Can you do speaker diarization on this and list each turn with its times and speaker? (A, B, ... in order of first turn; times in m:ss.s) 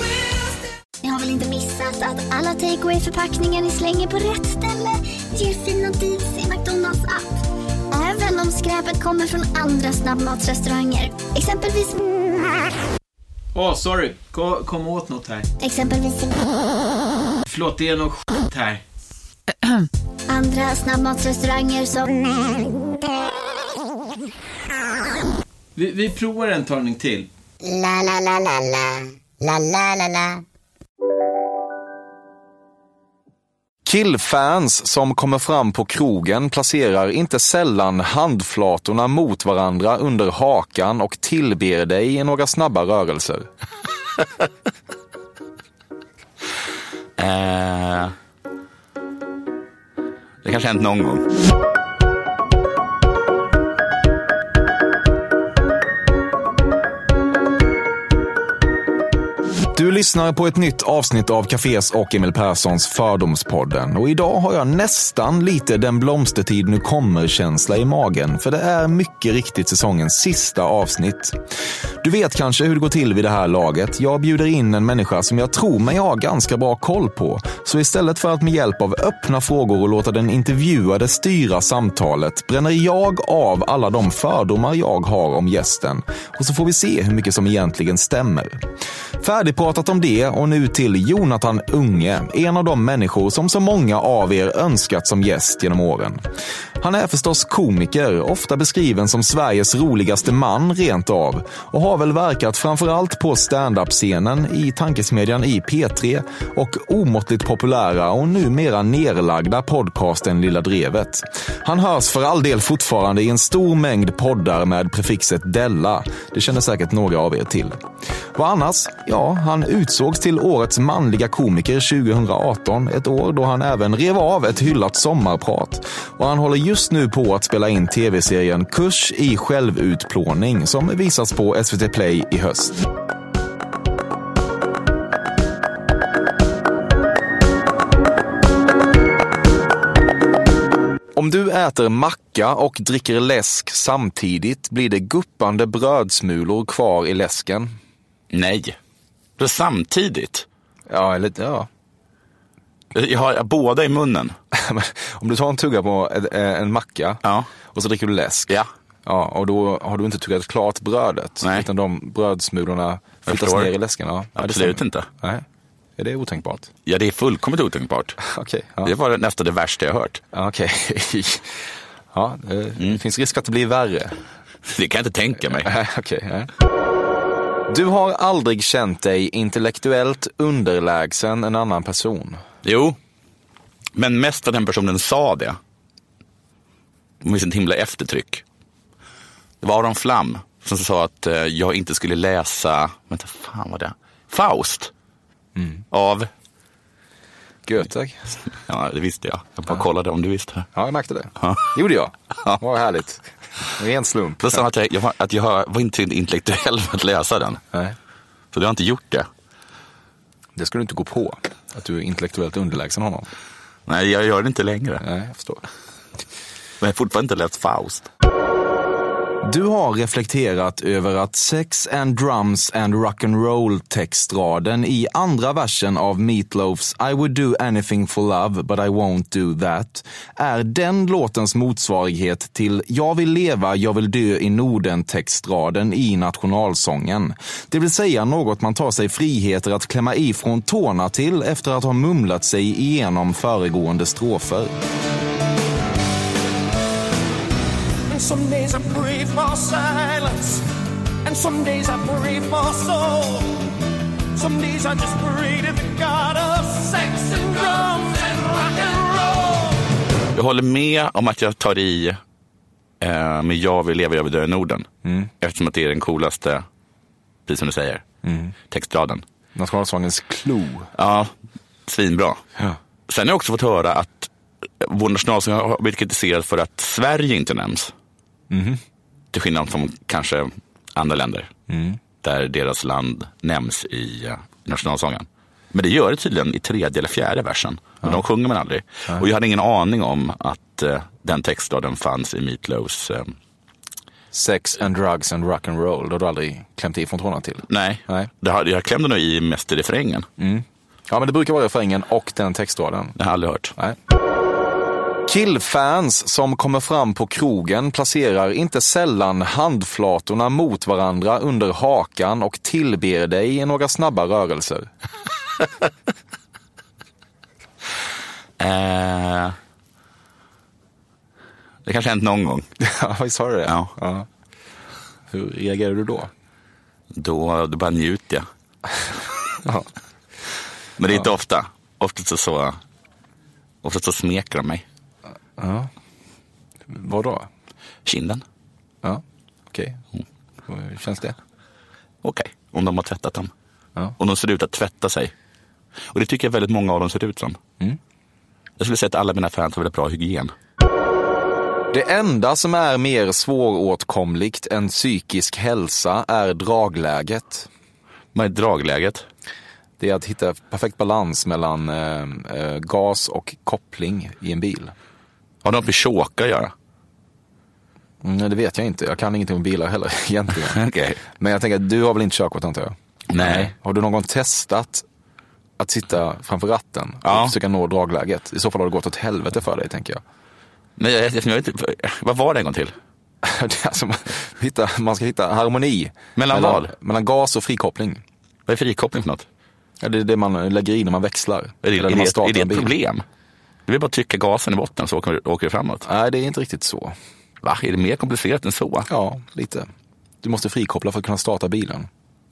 0:01.0-0:07.2 A
0:07.9-0:12.0 A
0:13.5-0:15.5 B
0:15.6-0:16.5 A
0:17.4-0:18.8 B
0:20.3-0:22.1 A
0:25.8-0:27.3 B
0:27.6-0:30.4 C
0:33.8-0:43.5 D
0:47.2-0:48.1 E
0:50.4-0:51.3 E
0:59.7-1:11.4 D
1:12.0-1:28.6 D
1:29.2-1:36.2 D
1:36.8-1:57.8 D
1:58.3-2:12.8 D
2:21.1-2:27.7 D
2:28.3-2:28.8 E
2:29.4-2:30.4 E
2:30.9-2:31.7 D
2:32.9-2:34.3 E
2:34.5-2:38.5 D
2:37.2-2:37.5 E
2:39.0-2:45.4 D
2:41.4-2:41.7 E
2:43.3-2:43.7 E
2:44.4-2:45.1 E
2:46.0-2:46.7 D
2:46.8-2:48.2 E
2:48.3-2:48.9 D
2:48.8-2:50.2 E
2:50.3-2:51.6 D
2:52.1-2:54.2 D
2:54.7-2:55.7 E
2:55.6-2:56.5 D
2:57.7-3:02.4 D
3:02.6-3:03.0 E
3:03.9-3:05.6 E
3:07.2-3:08.4 E
3:09.6-3:14.9 E
3:15.6-3:15.8 D
3:15.9-3:16.3 E
3:17.6-3:18.3 D
3:18.6-3:20.7 E
3:20.7-3:24.6 D
3:21.4-3:21.7 E
3:24.4-3:27.6 E
3:28.5-3:29.3 E
3:30.6-3:33.3 D
3:33.9-3:35.0 E
3:35.0-3:35.6 D
3:36.8-3:38.1 E
3:39.4-4:04.7 D
4:08.1-4:10.6 F
4:11.2-4:13.6 F
4:14.3-4:19.8 F
4:20.3-4:22.2 E
4:23.0-4:24.9 E
4:25.0-4:25.3 D
4:25.4-4:26.6 E
4:27.5-4:28.0 E
4:28.2-4:28.5 D
4:28.7-4:29.2 E
4:29.5-4:30.9 D
4:31.0-4:31.3 E
4:31.9-4:32.4 E
4:33.1-4:34.3 E
4:34.8-4:37.9 E
4:38.5-4:38.8 D
4:39.3-4:41.5 E
4:41.7-4:42.0 D
4:42.2-4:53.3 E
4:54.3-4:58.3 D
4:57.7-5:00.3 E
5:00.4-5:03.2 D
5:03.2-5:03.7 E
5:05.3-5:14.9 D
5:18.6-5:19.6 E
5:21.8-5:22.7 E
5:22.8-5:24.2 D
5:23.6-5:23.9 E
5:25.3-5:26.3 D
5:27.1-5:28.4 E
5:31.0-5:32.8 E
5:33.8-5:34.8 E
5:35.6-5:35.9 D
5:36.9-5:37.5 D
5:38.0-5:38.4 E
5:39.0-5:40.0 D
5:40.7-5:41.4 D
5:42.2-5:43.5 E
5:44.2-5:45.3 E
5:46.1-5:47.6 E
5:48.8-5:50.5 E
5:51.9-5:57.7 D
5:58.3-5:59.2 E
6:00.0-6:04.9 D
6:05.6-6:06.7 E
6:08.2-6:15.0 D
6:10.6-6:11.2 E
6:13.3-6:13.7 E
6:15.8-6:20.2 D
6:17.2-6:17.6 E
6:21.0-6:22.9 E
6:23.4-6:28.2 D
6:26.4-6:26.9 E
6:28.7-6:29.4 E
6:30.0-6:32.9 D
6:31.8-6:33.2 E
6:33.9-6:36.0 E
6:36.0-6:37.1 D
6:37.6-6:39.1 E
6:39.1-6:39.9 D
6:40.4-6:42.1 D